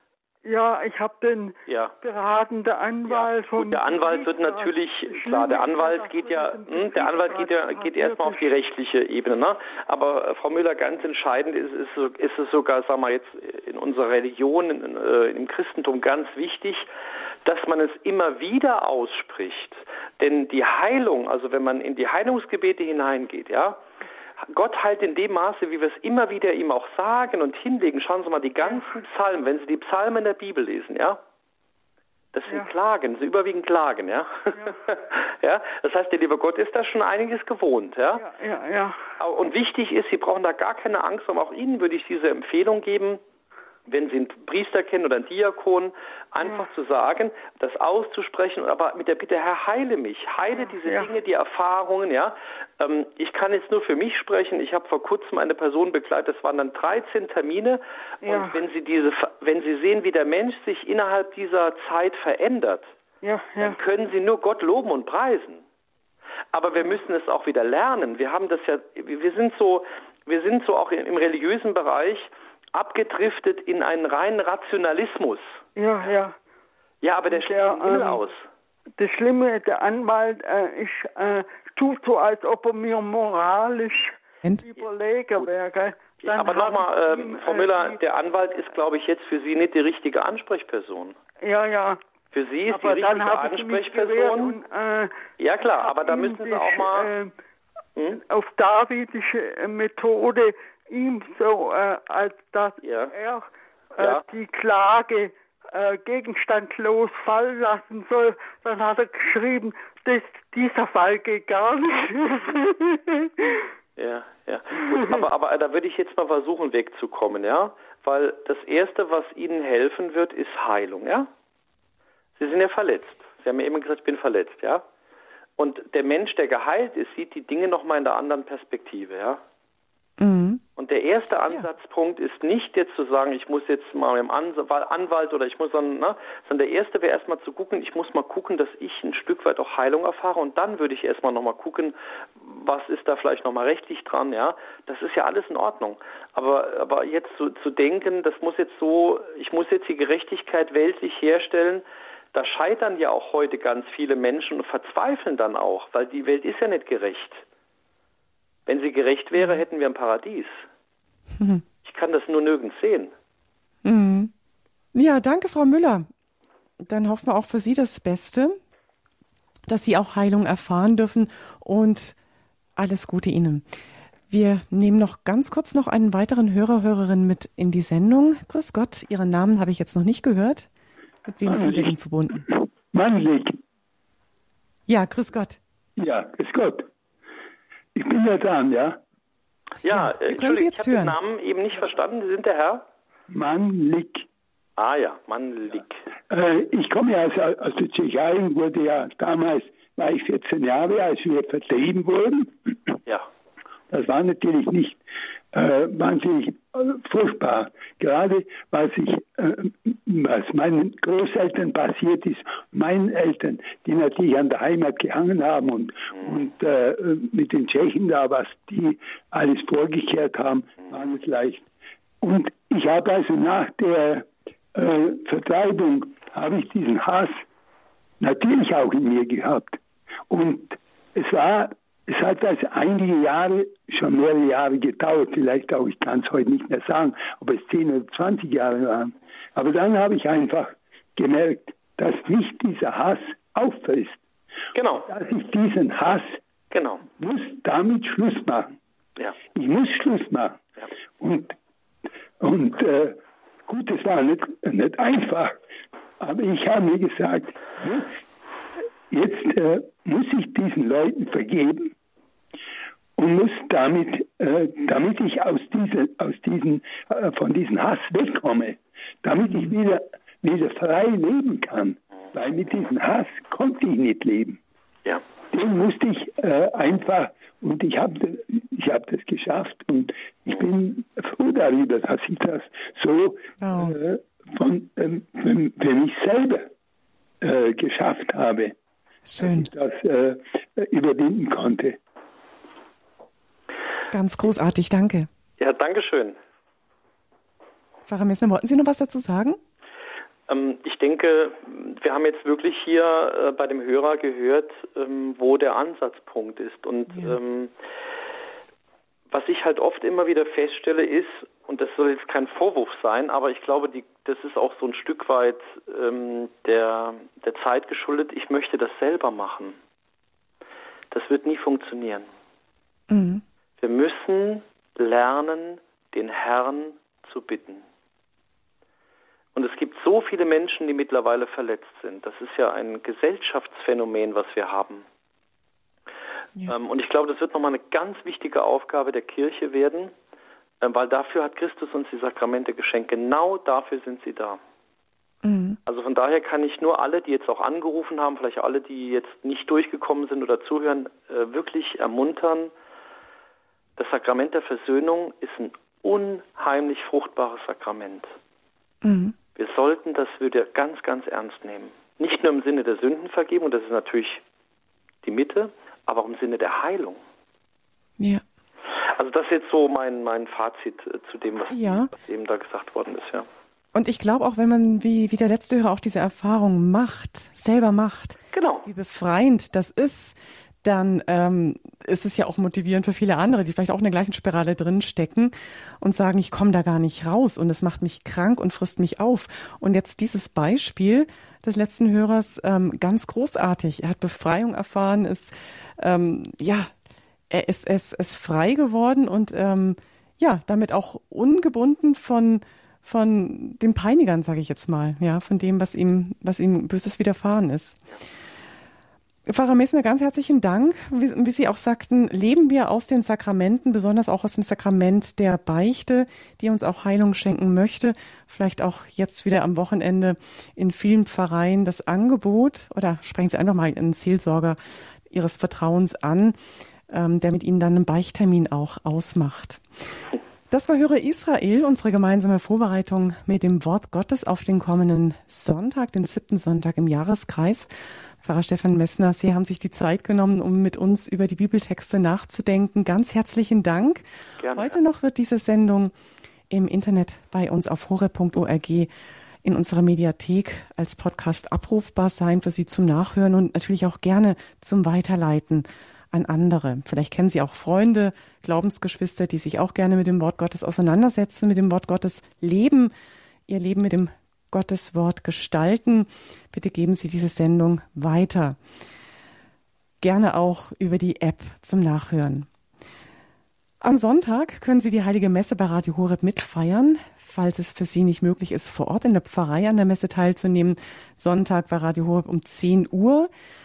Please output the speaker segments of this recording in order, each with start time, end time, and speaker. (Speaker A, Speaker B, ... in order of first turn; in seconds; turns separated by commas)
Speaker A: 0.4-8.4, Speaker B: 1.7-1.9, Speaker B: 3.0-16.8, Speaker B: 17.4-23.8, Speaker B: 24.4-31.2, Speaker B: 32.3-38.2, Speaker A: 38.1-39.0, Speaker B: 39.2-43.2, Speaker B: 43.9-62.9, Speaker A: 50.6-51.1, Speaker A: 58.2-58.6, Speaker A: 63.2-63.8, Speaker B: 63.6-65.6, Speaker B: 66.5-75.6, Speaker A: 75.8-76.3, Speaker B: 77.0-78.4, Speaker A: 77.3-78.2, Speaker A: 79.0-88.0, Speaker B: 86.2-91.2, Speaker A: 91.4-92.0, Speaker B: 92.3-94.5, Speaker A: 92.7-95.2, Speaker B: 95.4-97.1, Speaker A: 95.8-97.3, Speaker A: 98.2-113.6, Speaker B: 102.8-103.1, Speaker B: 114.0-121.3, Speaker A: 114.8-115.2, Speaker B: 122.4-124.8, Speaker B: 125.6-129.4, Speaker C: 130.2-130.6, Speaker B: 130.8-157.4, Speaker B: 158.7-160.7, Speaker C: 161.4-161.6, Speaker B: 161.8-163.1, Speaker C: 163.8-164.3, Speaker C: 164.9-166.1, Speaker C: 166.8-168.6, Speaker C: 169.7-172.2, Speaker C: 172.8-173.6, Speaker C: 174.3-180.7, Speaker C: 181.2-182.4, Speaker D: 181.4-183.6, Speaker C: 184.9-185.6, Speaker D: 186.0-186.9, Speaker D: 187.9-189.0, Speaker B: 189.8-192.8, Speaker C: 189.9-191.1, Speaker D: 193.3-194.2, Speaker B: 194.8-196.0, Speaker D: 196.3-203.0, Speaker D: 203.9-205.0, Speaker D: 205.5-221.7, Speaker D: 222.2-227.4, Speaker D: 228.2-244.2, Speaker B: 244.7-245.1, Speaker D: 245.0-246.4, Speaker B: 246.7-247.0, Speaker D: 247.0-248.8, Speaker D: 249.5-250.6, Speaker D: 251.2-251.6, Speaker D: 252.4-255.6, Speaker D: 256.2-258.1, Speaker D: 259.1-261.9, Speaker D: 263.2-274.6, Speaker D: 275.5-286.7, Speaker C: 283.6-283.9, Speaker D: 287.4-288.8, Speaker C: 289.2-289.7, Speaker D: 289.4-292.0, Speaker C: 294.1-295.3, Speaker B: 295.6-296.4, Speaker C: 298.1-299.6, Speaker B: 300.5-307.7, Speaker C: 307.1-307.4, Speaker B: 309.3-319.8, Speaker B: 321.1-322.3, Speaker C: 323.1-323.4, Speaker B: 323.8-327.8, Speaker B: 329.5-335.0, Speaker B: 336.7-340.1, Speaker B: 340.8-344.6, Speaker C: 345.4-345.8, Speaker B: 345.9-352.7, Speaker B: 354.0-358.3, Speaker C: 359.0-359.3, Speaker B: 359.6-364.4, Speaker B: 365.2-367.2, Speaker B: 369.0-373.5, Speaker C: 371.7-372.1, Speaker C: 373.9-396.9, Speaker B: 378.5-378.8, Speaker C: 397.5-408.0, Speaker C: 409.5-424.8, Speaker C: 425.3-426.6, Speaker C: 427.1-429.8, Speaker C: 430.7-437.9, Speaker C: 438.4-446.1, Speaker B: 444.6-445.0, Speaker C: 446.7-449.1, Speaker C: 449.6-463.1, Speaker C: 463.7-468.8, Speaker C: 470.2-472.7, Speaker C: 474.0-483.5